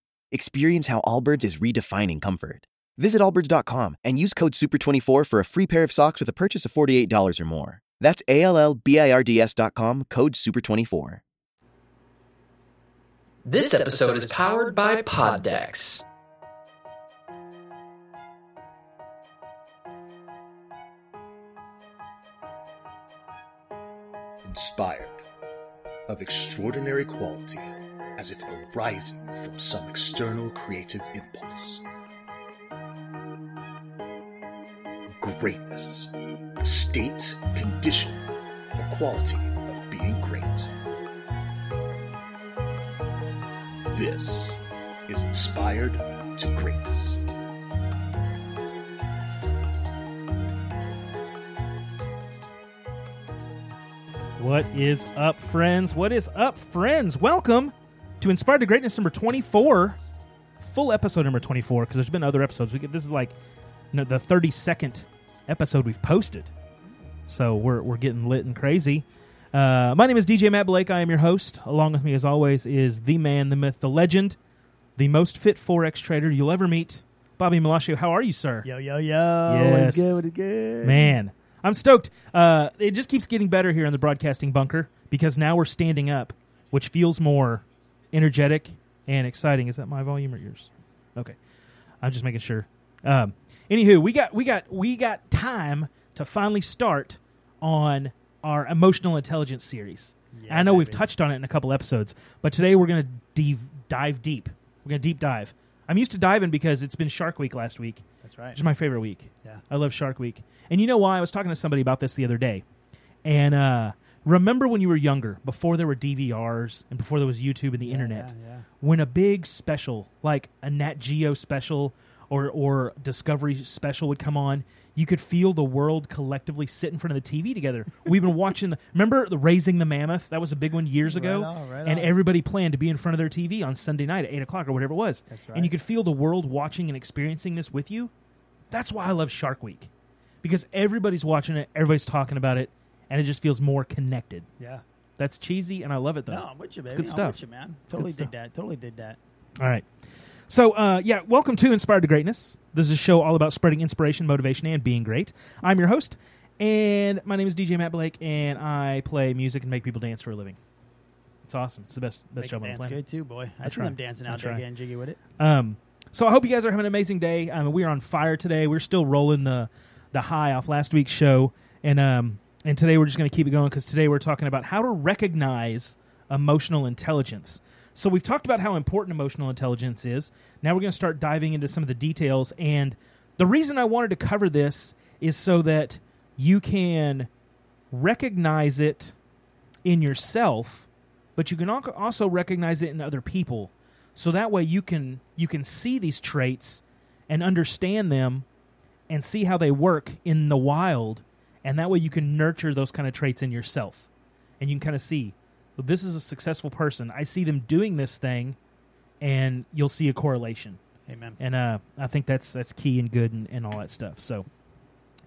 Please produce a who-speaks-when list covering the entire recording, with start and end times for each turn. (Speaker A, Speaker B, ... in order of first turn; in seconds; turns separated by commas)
Speaker A: 0.3-11.2, Speaker B: 13.5-16.0, Speaker C: 24.4-25.2, Speaker C: 26.1-31.9, Speaker C: 35.2-38.2, Speaker C: 38.8-40.7, Speaker C: 43.9-47.2, Speaker D: 54.4-60.0, Speaker D: 60.6-63.4, Speaker D: 63.9-66.5, Speaker D: 67.3-74.4, Speaker D: 75.0-78.7, Speaker E: 78.6-81.2, Speaker D: 79.5-80.2, Speaker D: 80.8-91.4, Speaker D: 92.0-112.6, Speaker E: 100.3-101.1, Speaker E: 108.2-108.6, Speaker D: 113.2-138.1, Speaker E: 117.8-118.7, Speaker E: 131.0-132.1, Speaker E: 135.3-135.7, Speaker D: 138.7-139.9, Speaker D: 140.4-144.5, Speaker D: 145.2-148.3, Speaker E: 146.3-149.2, Speaker D: 149.6-149.9, Speaker D: 150.5-160.6, Speaker D: 161.4-163.0, Speaker E: 162.4-165.2, Speaker D: 163.6-164.6, Speaker D: 165.4-187.3, Speaker D: 187.9-189.1, Speaker D: 189.8-198.4, Speaker D: 199.1-204.1, Speaker D: 204.6-208.6, Speaker D: 209.2-210.8, Speaker E: 211.1-211.4, Speaker D: 211.4-214.5